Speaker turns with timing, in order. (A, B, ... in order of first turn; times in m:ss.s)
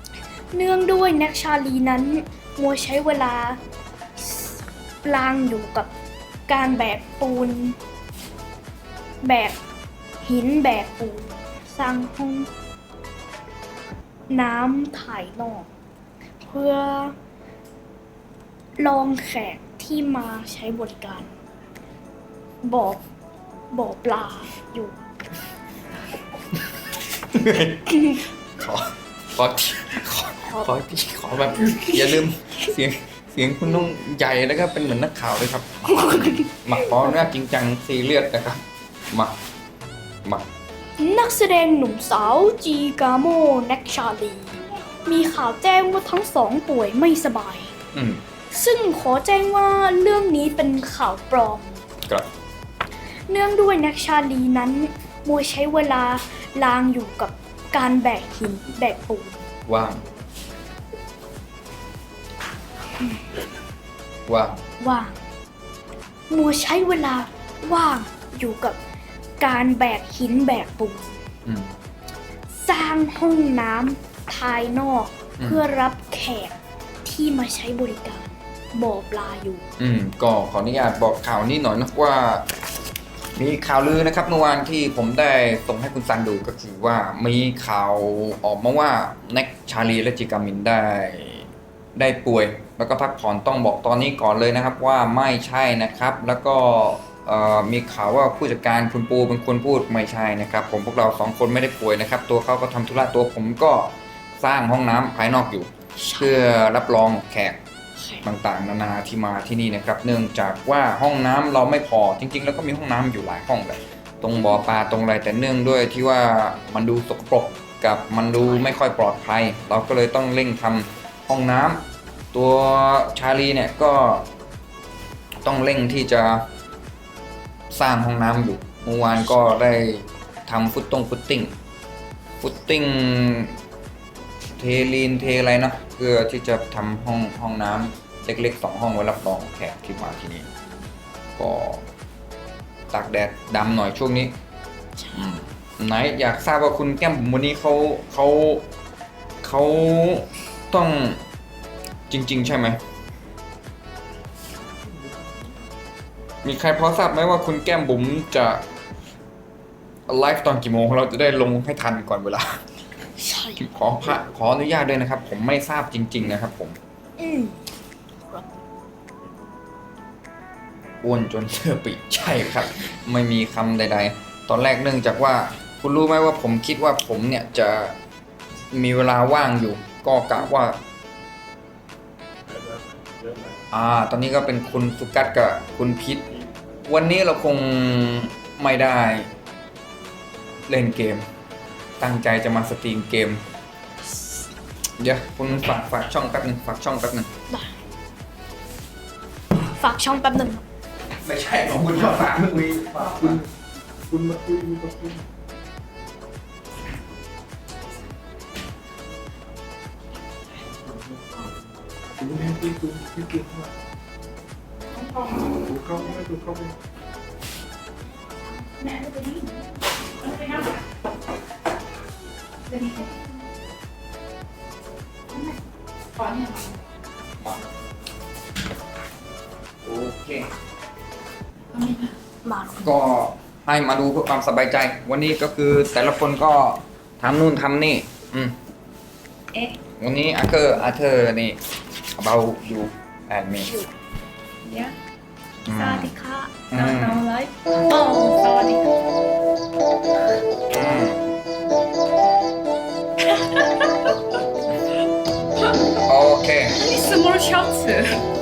0:00.5-0:03.6 A
0:04.2-0:05.9 A
0:06.5-0:07.8 A
0:09.2-0:09.6 A
0:10.2-0:12.5 A
0:14.3-0:15.7 A
0:16.4-0:17.2 A
0:18.8-0:21.3 A
0:22.6-0:23.0 A
0:23.7-0:25.0 A
0:27.2-0:39.4 B
0:36.0-0:36.4 A
0:41.0-0:47.7 A
0:47.9-0:48.2 B
0:48.5-0:51.8 A
0:53.3-0:59.4 A
0:59.7-1:00.0 B
1:04.3-1:04.6 B
1:04.8-1:05.2 A
1:06.3-1:08.8 A
1:09.4-1:11.2 A
1:11.4-1:11.7 B
1:12.5-1:19.6 A
1:15.4-1:15.6 B
1:19.8-1:22.5 B
1:23.4-1:47.6 B
1:46.0-1:46.4 A
1:48.0-1:48.2 A
1:48.2-2:04.3 B
2:05.4-2:06.5 B
2:07.7-2:11.5 B
2:12.4-2:13.6 B
2:14.6-2:20.5 B
2:21.4-2:21.8 B
2:22.9-2:24.3 B
2:25.1-2:28.7 B
2:29.4-2:31.2 B
2:32.1-2:32.8 B
2:36.4-2:38.6 B
2:40.1-2:42.6 B
2:43.2-2:43.7 A
2:43.6-2:46.8 B
2:47.2-2:47.6 A
2:51.0-2:58.0 B
2:58.7-3:00.8 B
3:02.5-3:03.6 C
3:03.7-3:06.3 B
3:06.8-3:09.3 B
3:10.7-3:11.3 B
3:12.0-3:13.4 B
3:15.0-3:17.3 B
3:17.5-3:17.8 A
3:19.8-3:20.6 A
3:21.2-3:23.4 B
3:23.2-3:23.5 C
3:24.1-3:25.2 C
3:30.8-3:31.2 C
3:32.2-3:33.7 C
3:35.1-3:35.6 A
3:35.6-3:36.8 C
3:38.8-3:39.5 A
3:49.8-3:50.5 B
3:52.4-3:52.9 A
3:52.8-3:58.6 B
3:59.5-3:59.8 D
4:00.0-4:01.6 B
4:02.2-4:03.7 B
4:04.6-4:05.0 D
4:05.7-4:06.1 B
4:05.7-4:09.0 D
4:06.7-4:07.2 B
4:10.7-4:11.3 B
4:13.3-4:14.2 D
4:16.0-4:16.8 B
4:16.7-4:18.2 D